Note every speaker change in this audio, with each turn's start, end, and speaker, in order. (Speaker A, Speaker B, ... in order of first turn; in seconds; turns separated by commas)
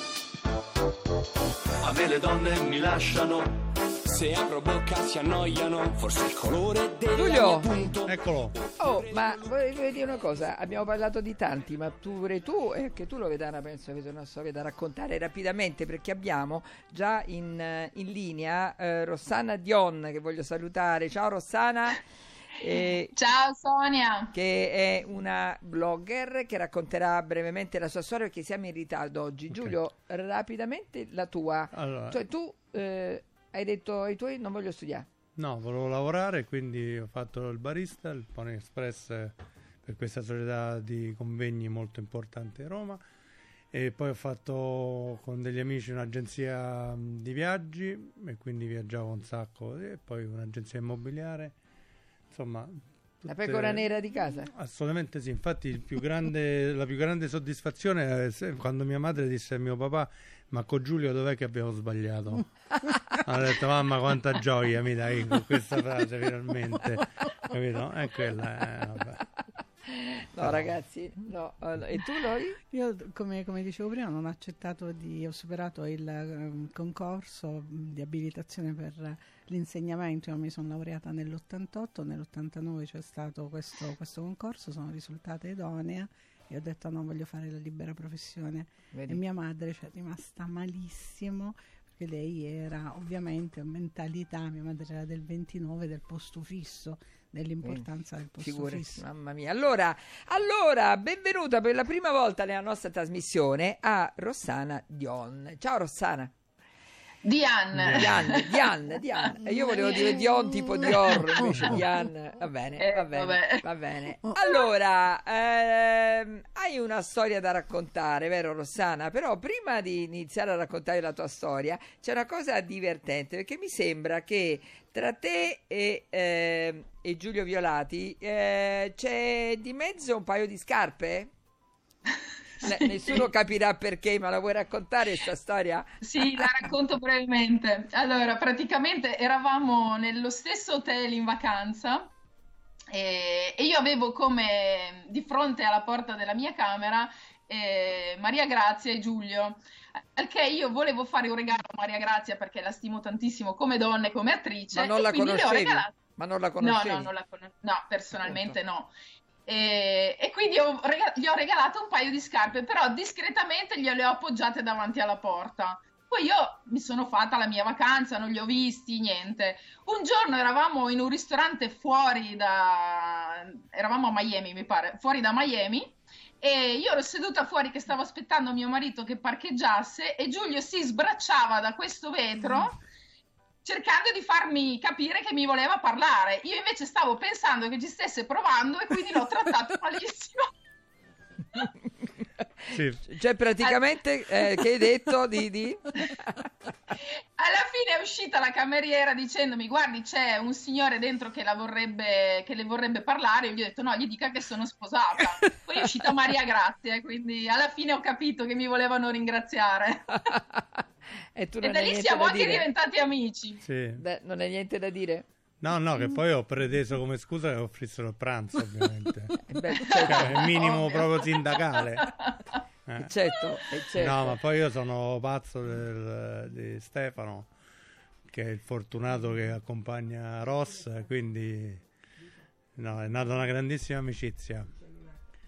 Speaker A: 1.8-8.2, Speaker B: 7.1-7.7, Speaker C: 8.0-8.6, Speaker B: 8.8-22.0, Speaker B: 22.6-23.1, Speaker D: 23.1-24.3, Speaker B: 24.3-35.1, Speaker C: 29.5-29.8, Speaker C: 31.7-32.2, Speaker C: 35.4-43.0, Speaker C: 43.7-51.5, Speaker C: 52.3-53.8, Speaker B: 53.3-54.5, Speaker C: 54.5-62.5, Speaker C: 63.2-69.2, Speaker B: 69.9-72.6, Speaker C: 70.4-70.7, Speaker E: 72.7-99.0, Speaker B: 88.9-89.2, Speaker B: 98.4-106.3, Speaker D: 107.2-108.6, Speaker C: 107.7-108.2, Speaker B: 107.9-131.3, Speaker D: 109.8-110.1, Speaker D: 112.8-113.6, Speaker D: 132.6-133.2, Speaker B: 132.6-136.6, Speaker D: 136.0-142.1, Speaker D: 142.9-155.9, Speaker B: 154.7-157.1, Speaker D: 156.6-158.9, Speaker B: 158.2-158.5, Speaker D: 159.5-182.8, Speaker D: 183.6-190.5, Speaker C: 192.7-193.0, Speaker B: 193.0-196.4, Speaker D: 197.1-210.2, Speaker B: 210.2-210.8, Speaker B: 211.3-212.7, Speaker D: 211.6-213.6, Speaker C: 213.6-214.0, Speaker B: 214.0-215.2, Speaker C: 215.6-222.1, Speaker B: 219.5-220.5, Speaker D: 219.9-222.3, Speaker C: 222.9-223.1, Speaker B: 223.0-224.4, Speaker C: 223.9-227.5, Speaker C: 228.3-231.8, Speaker C: 232.7-234.7